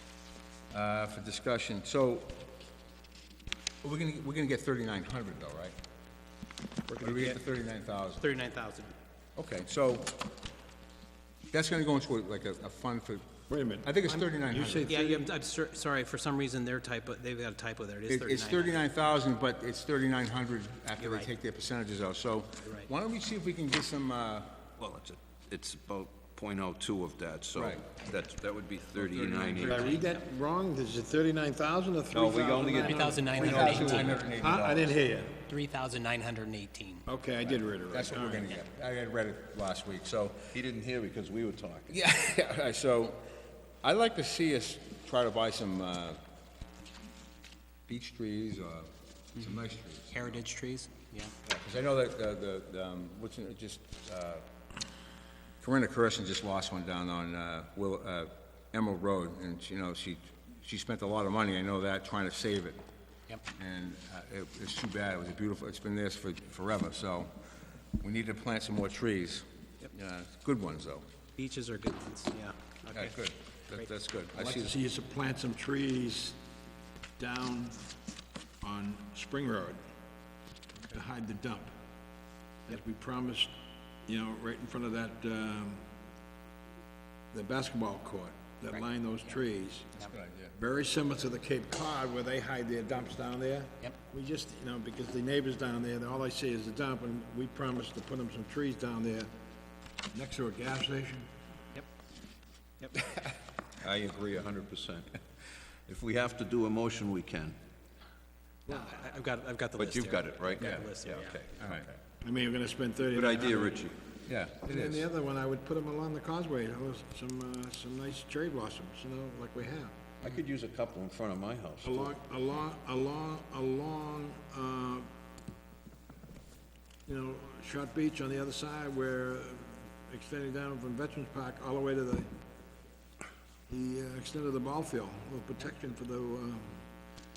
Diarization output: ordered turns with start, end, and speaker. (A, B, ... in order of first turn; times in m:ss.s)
0:00.7-0:02.4 A
0:03.8-0:05.7 A
0:06.9-0:07.3 B
0:07.0-0:08.3 A
0:08.2-0:08.9 B
0:09.4-0:10.3 A
0:11.5-0:13.3 A
0:13.5-0:15.2 C
0:13.8-0:14.9 A
0:14.8-0:18.8 B
0:18.1-0:24.6 A
0:21.0-0:21.3 B
0:24.8-0:29.9 D
0:27.5-0:28.0 A
0:29.0-0:30.0 A
0:29.6-0:35.4 C
0:32.1-0:34.8 D
0:32.8-0:34.2 B
0:33.3-0:34.9 A
0:35.4-0:37.0 B
0:37.0-0:38.5 C
0:37.9-0:40.5 A
0:40.5-0:42.0 D
0:41.9-0:43.2 A
0:43.8-0:46.2 A
0:47.9-0:50.4 A
0:50.1-0:51.3 B
0:51.4-0:54.4 A
0:55.6-1:02.8 A
1:03.5-1:07.3 A
1:08.0-1:11.0 A
1:11.4-1:13.1 B
1:12.9-1:14.7 A
1:14.4-1:16.4 C
1:17.2-1:17.8 C
1:18.6-1:19.8 C
1:20.9-1:21.7 C
1:22.7-1:23.5 C
1:24.0-1:25.8 C
1:27.3-1:29.9 C
1:30.0-1:30.5 A
1:30.5-1:39.3 C
1:40.1-1:41.3 C
1:43.8-1:45.1 D
1:45.9-1:47.6 D
1:48.7-1:51.3 B
1:49.8-1:52.0 D
1:50.6-1:50.9 A
1:51.6-1:51.8 A
1:52.2-1:53.8 C
1:53.1-1:54.0 D
1:54.3-1:55.1 A
1:54.6-1:59.9 C
2:00.2-2:02.2 D
2:01.8-2:05.1 C
2:07.0-2:12.3 C
2:13.7-2:16.8 C